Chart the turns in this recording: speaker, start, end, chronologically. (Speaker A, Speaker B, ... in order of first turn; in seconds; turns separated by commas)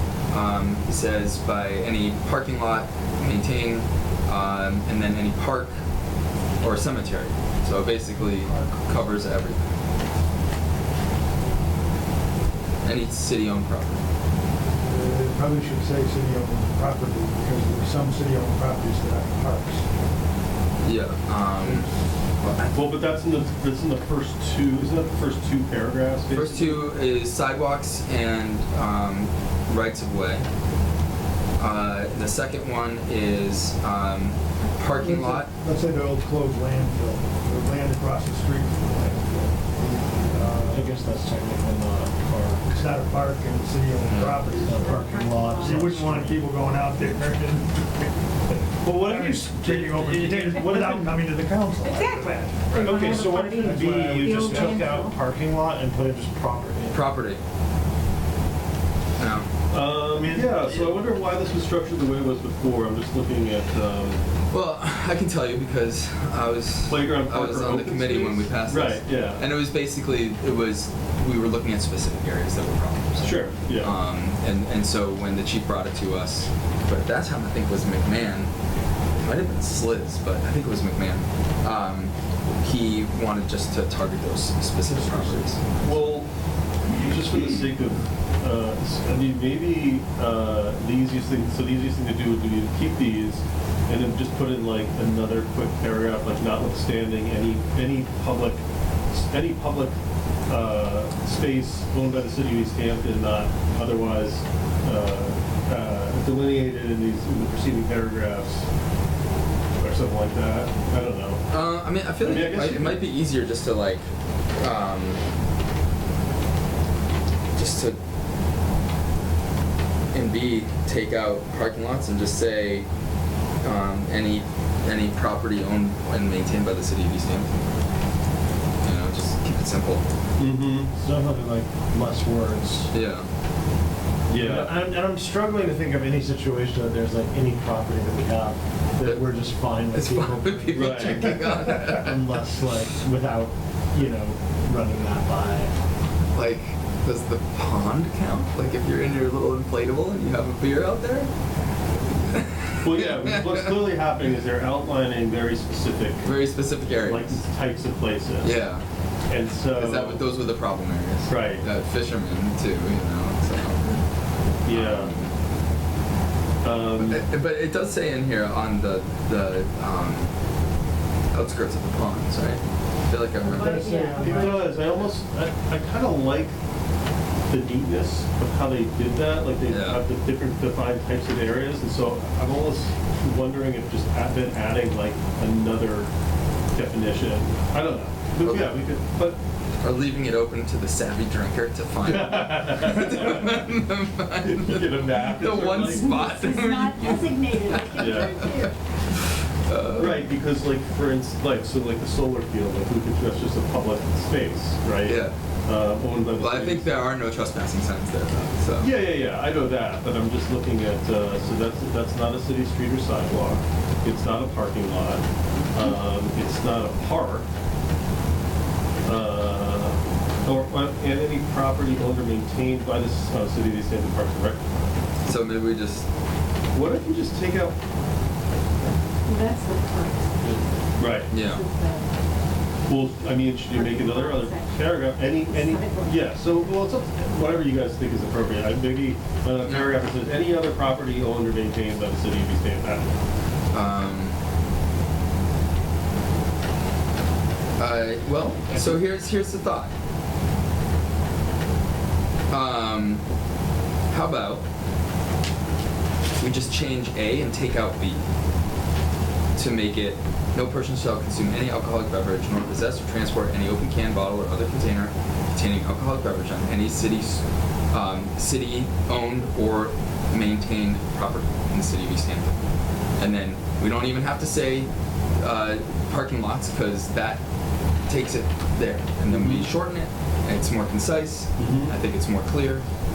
Speaker A: 0.3-5.8, Speaker A: 6.6-9.7, Speaker B: 8.2-8.8, Speaker A: 12.8-14.0, Speaker B: 14.8-19.9, Speaker A: 20.8-21.9, Speaker A: 22.4-23.0, Speaker C: 22.7-26.8, Speaker A: 26.3-30.4, Speaker A: 31.6-35.5, Speaker B: 35.0-40.9, Speaker D: 40.7-42.8, Speaker B: 42.7-47.9, Speaker A: 44.0-44.4, Speaker D: 44.6-46.4, Speaker E: 44.7-45.9, Speaker D: 48.8-51.2, Speaker B: 49.0-53.0, Speaker E: 51.8-55.2, Speaker D: 52.8-57.0, Speaker B: 53.6-54.8, Speaker A: 56.9-57.4, Speaker A: 59.2-59.5, Speaker C: 59.7-64.2, Speaker B: 60.1-60.7, Speaker A: 64.5-78.5, Speaker C: 66.9-69.4, Speaker C: 73.2-73.9, Speaker A: 79.2-85.6, Speaker B: 84.9-86.0, Speaker C: 85.8-86.3, Speaker C: 86.9-99.9, Speaker C: 100.5-108.6, Speaker C: 109.8-111.4, Speaker A: 111.5-114.0, Speaker C: 112.2-113.1, Speaker A: 114.6-115.2, Speaker A: 117.5-118.0, Speaker A: 120.1-122.8, Speaker A: 123.6-127.7, Speaker A: 128.8-130.0, Speaker C: 130.4-130.9, Speaker D: 130.9-132.9, Speaker A: 132.9-133.2, Speaker C: 134.3-134.8, Speaker D: 134.4-145.7, Speaker A: 139.9-142.4, Speaker C: 140.7-141.4, Speaker A: 146.3-151.3, Speaker A: 152.1-153.8, Speaker C: 152.8-156.3, Speaker A: 156.2-157.4, Speaker C: 157.0-158.6, Speaker A: 158.4-158.8, Speaker C: 159.3-160.2, Speaker A: 159.8-164.0, Speaker C: 161.3-161.6, Speaker C: 164.6-165.1, Speaker A: 164.7-165.3, Speaker C: 166.6-167.2, Speaker A: 167.0-170.3, Speaker A: 171.3-174.1, Speaker E: 173.4-174.8, Speaker B: 173.4-174.6, Speaker C: 174.1-176.5, Speaker C: 177.5-186.1, Speaker A: 179.7-180.0, Speaker C: 186.7-189.4, Speaker A: 188.4-188.7, Speaker A: 189.8-198.7, Speaker C: 192.0-193.7, Speaker C: 194.4-196.3, Speaker E: 196.0-198.7, Speaker C: 198.0-198.4, Speaker A: 199.7-200.3, Speaker C: 199.9-207.0, Speaker A: 205.0-205.3, Speaker A: 206.4-208.9, Speaker C: 208.8-217.4, Speaker C: 219.0-225.0, Speaker A: 225.2-226.1, Speaker C: 226.7-227.8, Speaker E: 229.2-230.7, Speaker C: 230.4-231.3, Speaker E: 231.2-232.1, Speaker A: 231.3-231.6, Speaker C: 232.9-243.1, Speaker E: 233.6-236.4, Speaker A: 239.6-240.0, Speaker A: 243.7-244.3, Speaker A: 247.8-249.9, Speaker A: 252.5-253.2, Speaker A: 254.1-254.6, Speaker A: 256.4-258.2, Speaker A: 259.6-272.6, Speaker A: 273.2-277.4, Speaker A: 278.1-282.8, Speaker C: 279.3-279.7, Speaker C: 281.6-281.9